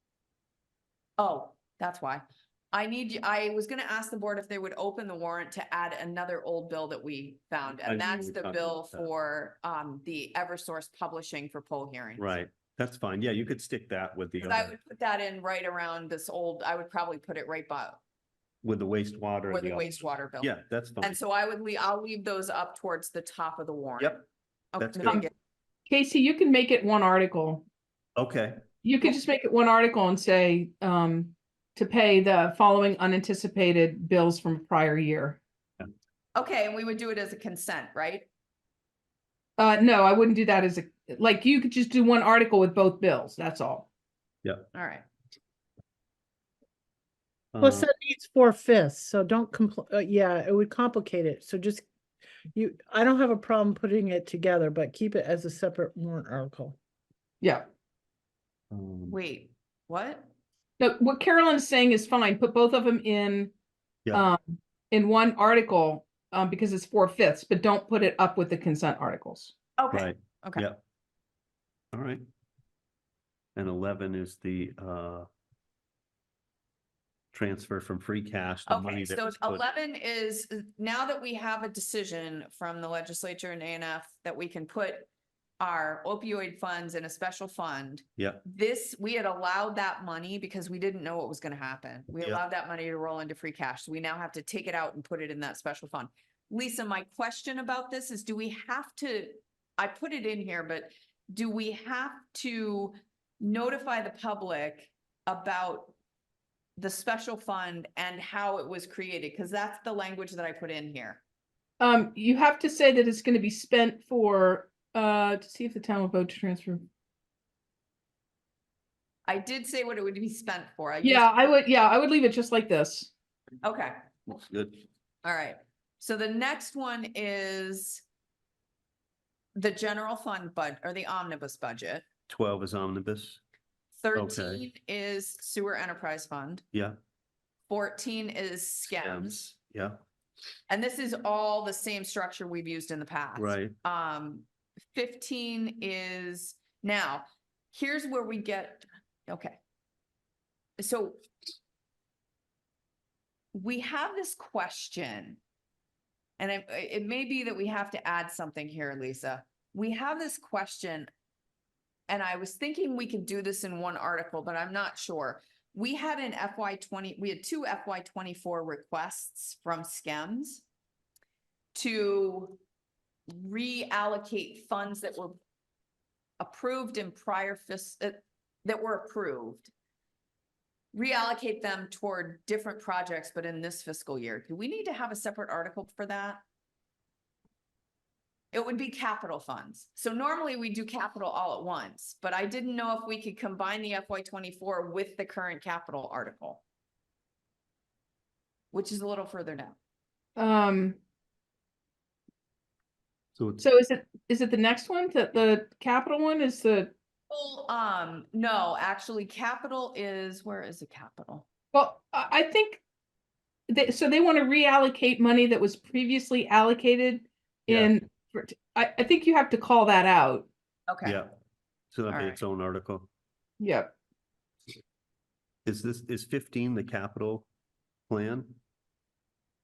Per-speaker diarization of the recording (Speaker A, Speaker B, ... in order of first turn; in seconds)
Speaker A: 1.2-12.4, 14.4-18.0, 19.5-25.3, 36.3-38.3, 44.7-45.0, 59.1-60.3, 69.8-70.6, 78.7-85.1, 85.6-106.0, 106.8-111.2, 119.2-121.5, 123.6-124.0, 125.2-128.0, 129.5-132.0, 134.0-136.6, 137.7-139.4, 140.7-149.6, 150.8-151.2, 153.5-155.4, 156.4-161.1, 162.1-170.6, 171.7-172.6, 173.3-175.4, 176.4-179.7, 180.9-186.4, 188.5-196.6, 198.7-199.8, 207.3-211.4, 220.9-221.2, 222.1-222.4
Speaker B: 7.8-9.1, 12.2-14.7, 18.6-21.2, 24.8-25.2, 28.2-28.6, 47.5-47.9, 58.7-59.2, 69.9-70.8, 71.9-72.2, 73.6-75.3, 77.3-79.6, 88.2-88.4, 124.3-124.8, 132.3-133.4, 134.1-134.6, 139.0-140.0, 143.3-143.7, 203.3-203.6, 221.0-221.3, 221.9-223.1, 225.6-227.5, 228.1-228.6
Speaker C: 25.9-27.7, 28.8-35.4, 39.6-43.9, 57.4-57.7, 60.8-63.5, 64.1-69.5, 111.8-116.9, 121.0-123.1, 200.4-201.0, 203.6-206.9, 211.7-212.8, 213.7-220.5, 223.6-223.9
Speaker D: 47.6-51.9, 52.5-56.8